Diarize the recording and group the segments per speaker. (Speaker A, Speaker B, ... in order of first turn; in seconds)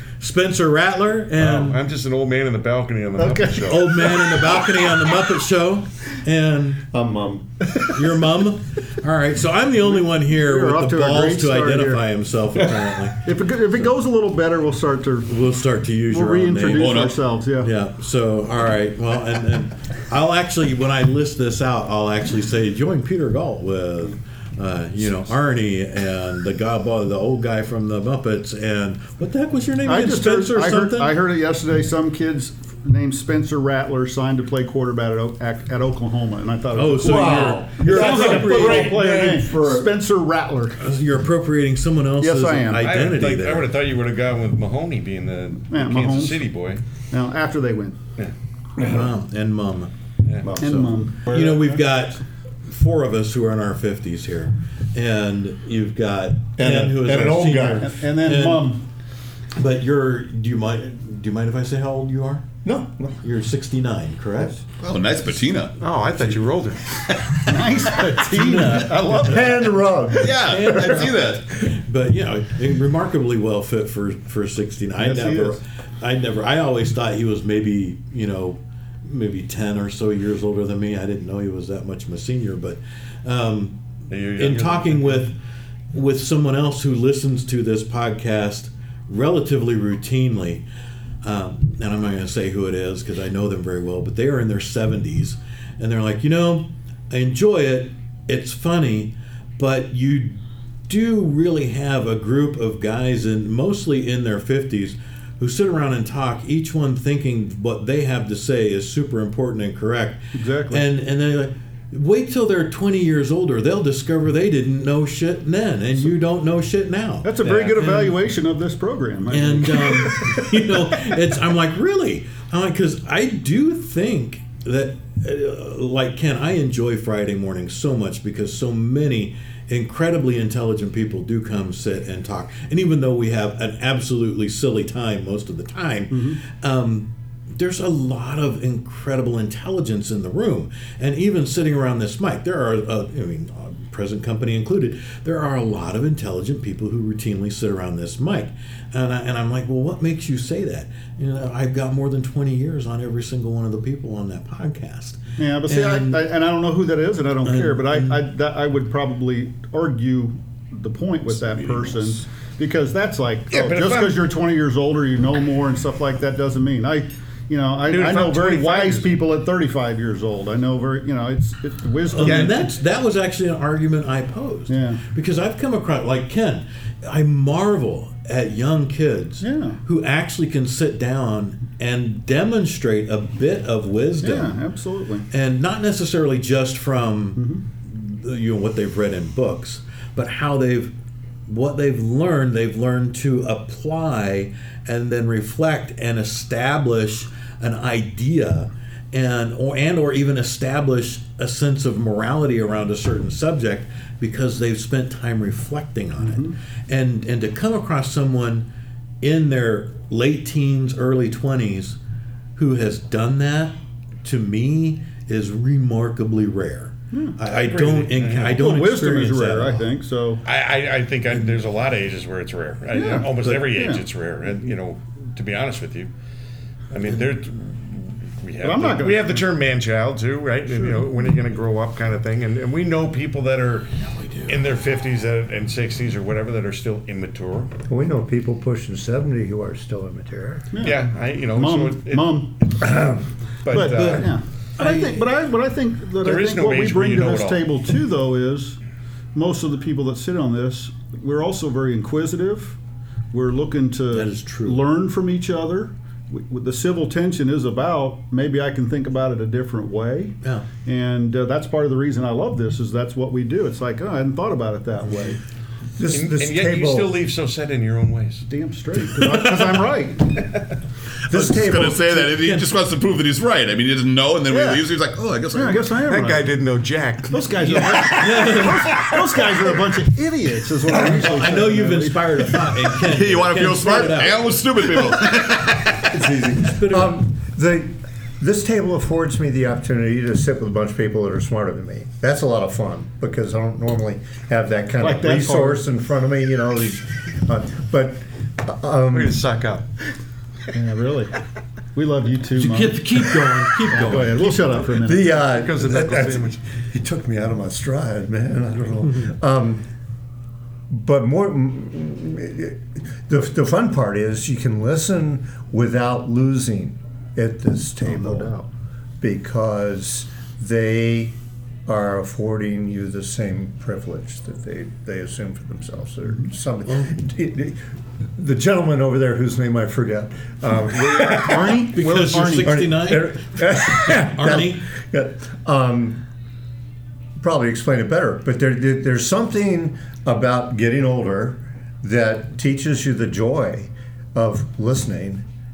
Speaker A: 0.2-1.8, 3.7-6.8, 7.9-13.9, 15.3-17.0, 17.6-31.2, 36.7-39.1, 40.8-43.7, 48.8-49.9, 50.4-58.8, 59.5-62.5, 63.2-64.6, 68.1-69.4, 70.3-83.8, 84.4-85.3, 85.9-90.6, 91.2-118.2, 119.3-156.2, 157.4-158.2, 172.1-184.6, 185.3-190.9, 191.5-208.7, 209.2-212.0, 212.6-219.8, 234.1-234.5, 243.7-245.2, 254.1-254.8, 265.0-265.3, 272.3-272.7, 277.9-279.1, 280.9-284.6, 286.6-287.2, 302.6-305.2, 326.9-327.2, 331.8-334.9
Speaker B: 1.4-4.2, 42.8-46.8, 50.2-50.5, 65.8-66.8, 84.1-85.2, 117.4-117.9, 163.5-164.3, 167.8-169.2, 172.2-172.6, 217.5-218.6, 220.4-226.1, 226.9-233.9, 234.5-237.7, 240.8-244.3, 246.2-247.6, 266.1-268.5, 276.1-277.9, 299.1-299.9, 305.4-306.6, 330.9-332.4
Speaker C: 3.2-3.9, 9.9-12.0, 13.2-15.3, 16.1-17.7, 29.8-40.8, 42.2-42.9, 45.7-46.4, 47.1-48.0, 50.5-51.8, 57.8-58.8, 67.4-69.9, 75.0-75.6, 110.3-110.8, 117.2-121.0, 136.1-136.4, 155.4-172.7, 174.7-175.0, 179.4-179.8, 184.2-185.3, 187.4-187.6, 206.2-206.6, 217.1-217.3, 218.4-220.4, 222.9-224.0, 228.6-229.5, 240.7-242.9, 243.7-248.8, 249.3-252.8, 253.3-265.4, 268.5-270.4, 274.5-274.8, 275.5-276.4, 277.3-282.4, 295.0-295.8, 300.7-301.4, 301.9-303.2, 303.9-305.3, 318.1-318.6, 331.4-332.9
Speaker D: 6.9-7.7, 37.0-39.9, 56.6-57.9, 62.6-63.2, 69.2-71.1, 237.9-240.7, 266.0-267.2, 271.3-272.3, 286.0-299.4, 305.0-309.8, 310.9-318.5, 319.2-321.3, 321.9-327.8, 328.4-331.8, 332.6-336.2, 337.4-345.4
Speaker E: 16.7-17.2, 64.8-65.8, 70.2-71.4, 271.3-276.0, 283.0-286.0